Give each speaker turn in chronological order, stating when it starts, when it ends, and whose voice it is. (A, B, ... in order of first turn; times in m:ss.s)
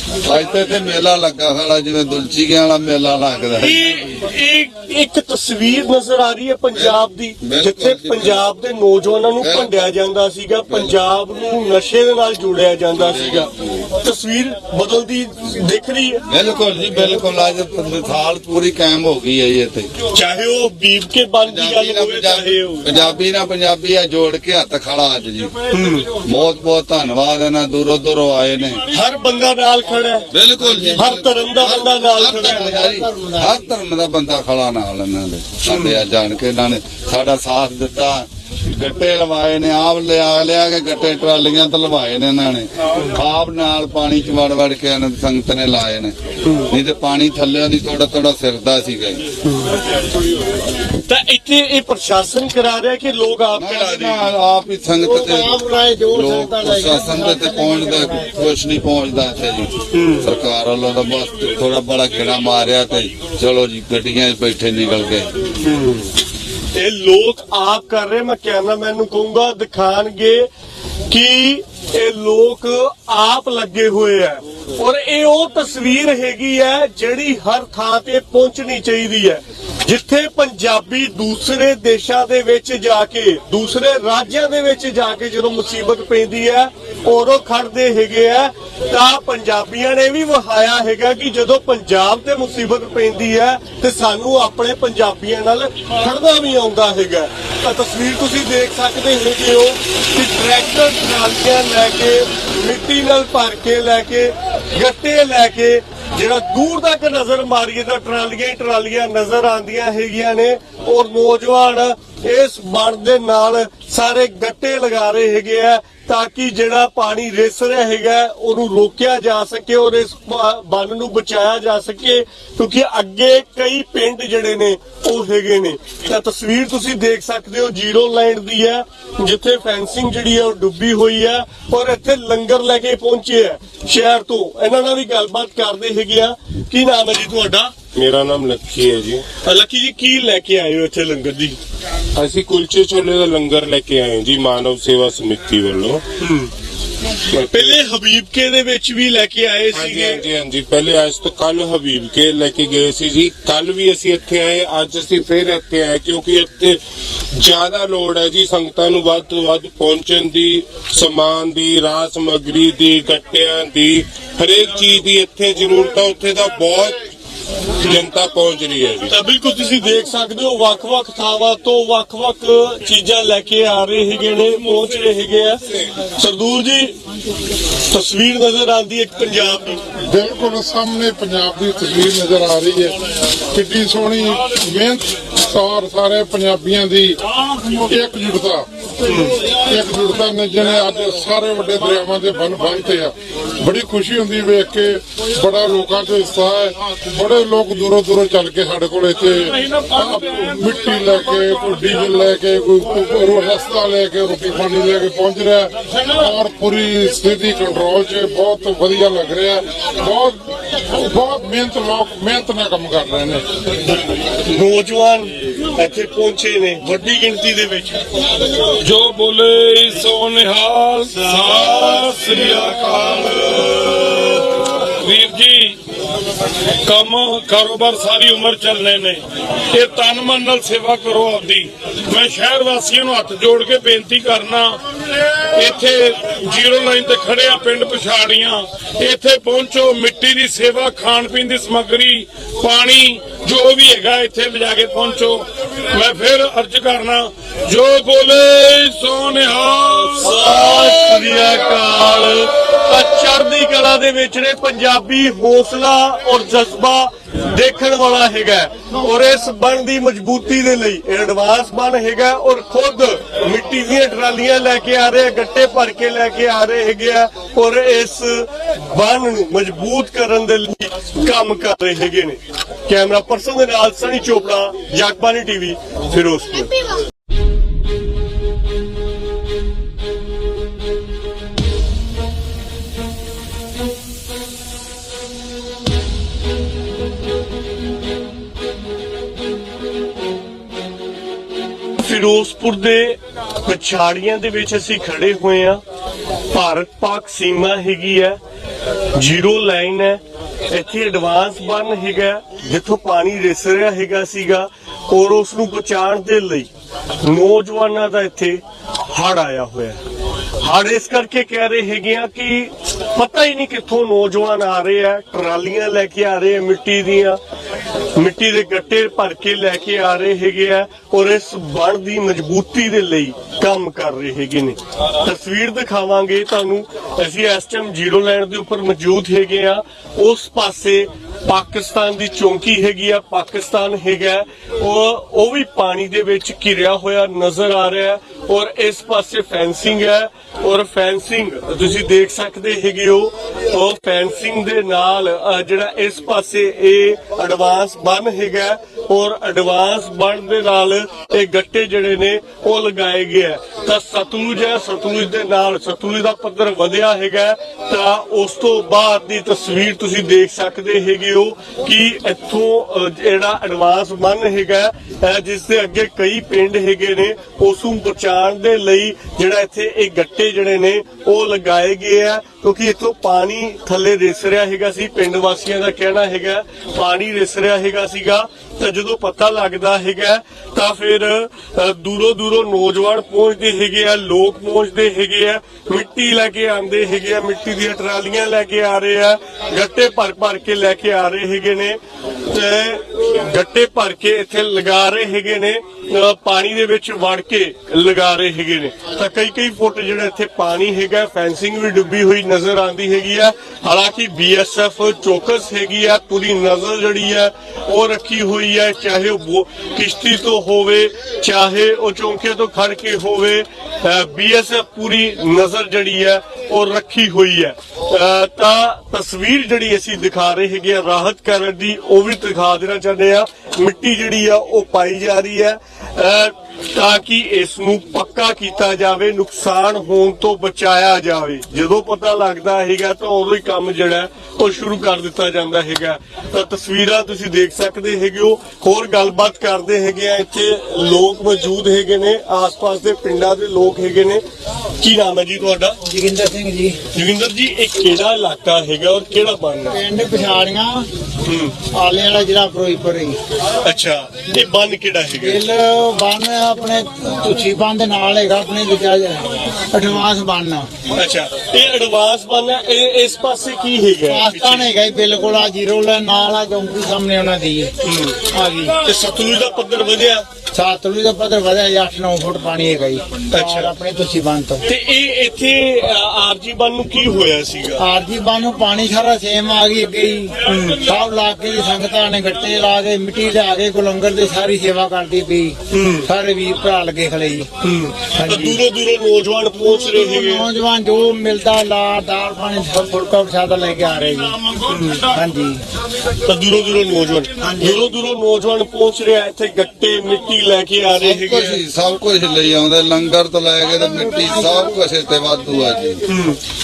0:00.2-0:03.8 A
0:03.6-0:16.2 B
0:07.4-0:08.4 A
0:09.4-0:09.7 A
0:13.0-0:13.5 A
0:16.3-0:19.9 A
0:20.1-0:23.0 B
0:21.4-0:25.5 A
0:25.7-0:26.1 B
0:26.1-0:28.8 A
0:28.9-0:30.3 B
0:30.3-0:46.1 A
0:30.9-0:32.8 B
0:32.4-0:33.6 C
0:35.7-0:36.0 B
0:46.6-0:49.2 A
0:51.0-0:54.3 B
0:53.6-0:55.6 A
0:55.0-0:58.4 C
0:56.1-1:05.4 A
0:59.9-1:00.3 B
1:05.6-1:06.1 B
1:06.7-1:10.5 B
1:11.1-2:17.7 B
2:17.9-2:19.2 D
2:19.4-2:21.6 B
2:22.2-2:26.1 D
2:26.2-2:26.5 B
2:27.3-2:27.8 D
2:27.5-2:30.2 B
2:29.7-2:36.8 D
2:37.3-2:47.1 D
2:47.8-2:49.1 D
2:49.1-2:56.9 B
2:57.9-2:59.8 B
3:00.0-3:02.9 E
3:03.5-3:08.6 E
3:09.0-3:09.3 B
3:09.6-3:33.4 E
3:34.4-3:38.1 B
3:38.8-3:43.8 F
3:44.9-3:45.8 F
3:46.8-3:54.8 F
3:55.4-4:10.3 F
4:10.2-4:36.9 B
4:52.0-4:55.8 B
4:56.5-4:58.4 B
4:59.1-5:06.7 B
5:07.2-5:10.0 B
5:10.6-5:17.4 B
5:18.2-6:32.0 B
6:32.5-7:24.4 B
7:25.0-7:26.0 B
7:26.0-7:27.0 C
7:27.1-7:30.0 B
7:29.9-7:31.1 C
7:31.4-7:31.7 B
7:31.9-7:33.4 C
7:33.8-7:35.6 B
7:35.4-7:40.9 C
7:41.1-7:44.9 B
7:44.2-7:47.9 C
7:48.0-7:48.4 B
7:48.5-7:49.0 C
7:49.0-7:50.4 B
7:50.7-7:54.8 C
7:53.5-7:53.9 B
7:54.8-7:58.0 B
7:58.0-8:07.7 C
8:00.6-8:01.0 B
8:05.9-8:06.3 B
8:07.8-8:10.6 B
8:08.3-8:08.8 C
8:10.1-8:14.6 C
8:14.9-8:15.3 B
8:15.3-8:15.8 C
8:16.4-8:21.8 B
8:17.6-8:18.0 C
8:21.2-8:26.2 A
8:26.3-8:26.6 B